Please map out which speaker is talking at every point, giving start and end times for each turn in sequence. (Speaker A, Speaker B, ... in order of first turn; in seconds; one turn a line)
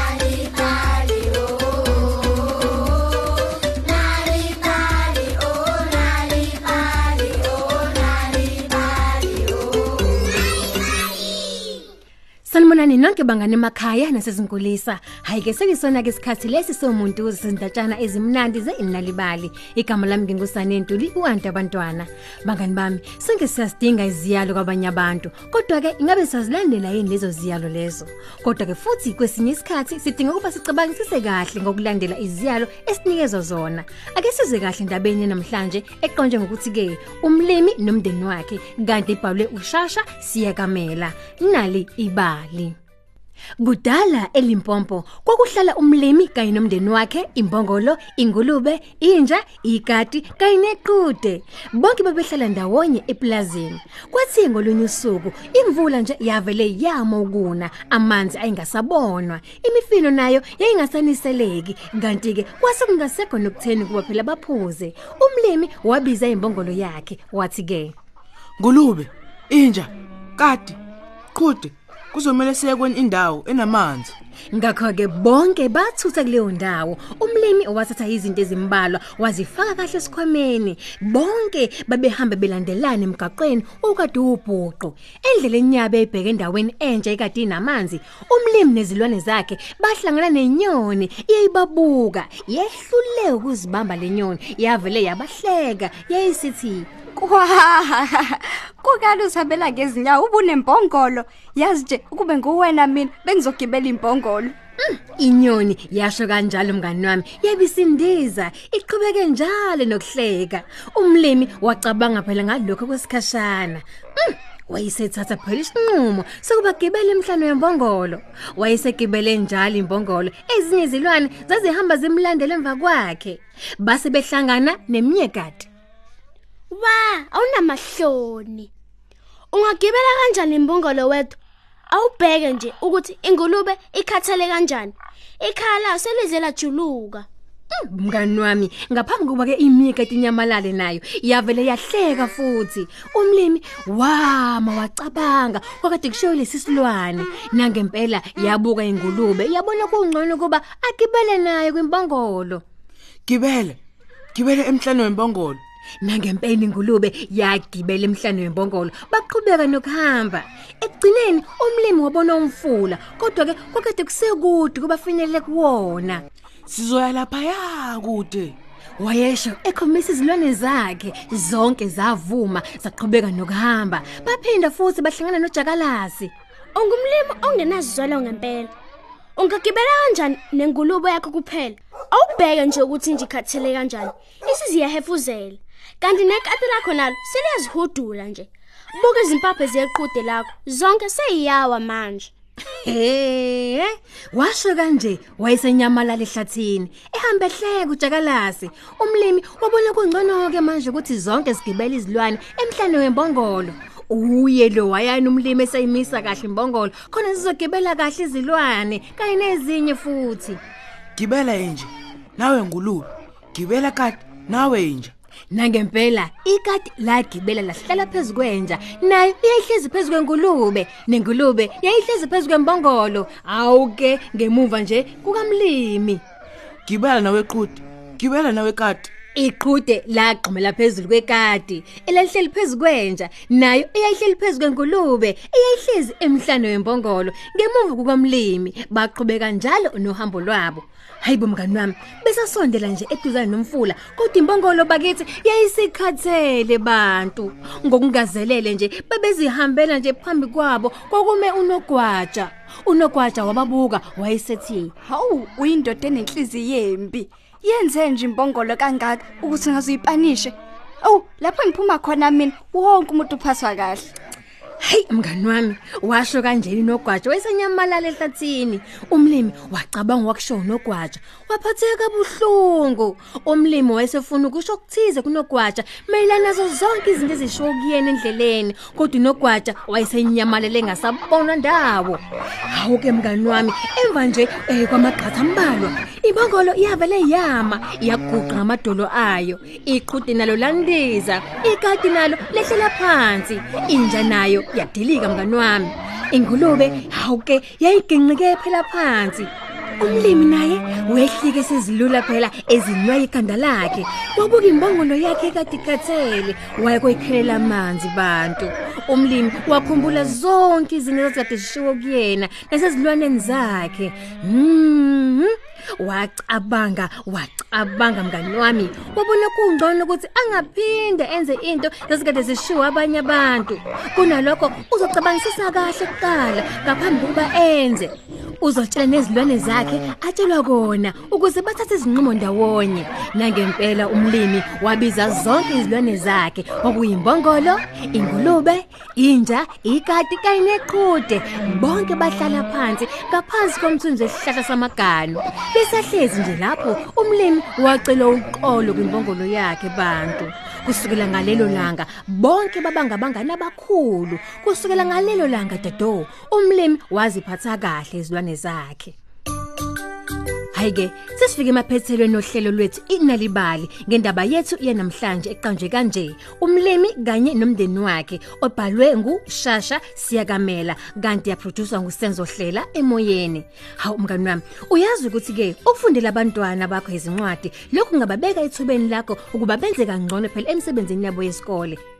Speaker A: 5.3-7.1
Speaker B: 12.5-42.8
Speaker B: 43.6-68.0
Speaker C: 68.6-70.8
Speaker C: 71.3-74.2
Speaker B: 74.5-96.9
Speaker D: 97.2-104.5
Speaker B: 104.8-125.7
Speaker A: 126.7-128.7
Speaker A: 129.5-131.4
Speaker A: 131.9-137.3
Speaker B: 137.7-152.6
Speaker C: 153.3-153.8
Speaker C: 154.3-155.6
Speaker B: 156.0-166.2
Speaker C: 166.7-168.6
Speaker B: 169.0-176.3
Speaker A: 176.8-178.7
Speaker A: 179.4-192.3
Speaker B: 192.7-210.6
Speaker C: 211.2-215.1
Speaker B: 215.5-226.2
Speaker C: 226.8-229.1
Speaker B: 229.3-254.9
Speaker D: 255.1-264.1
Speaker B: 264.8-359.2
Speaker B: 360.7-382.0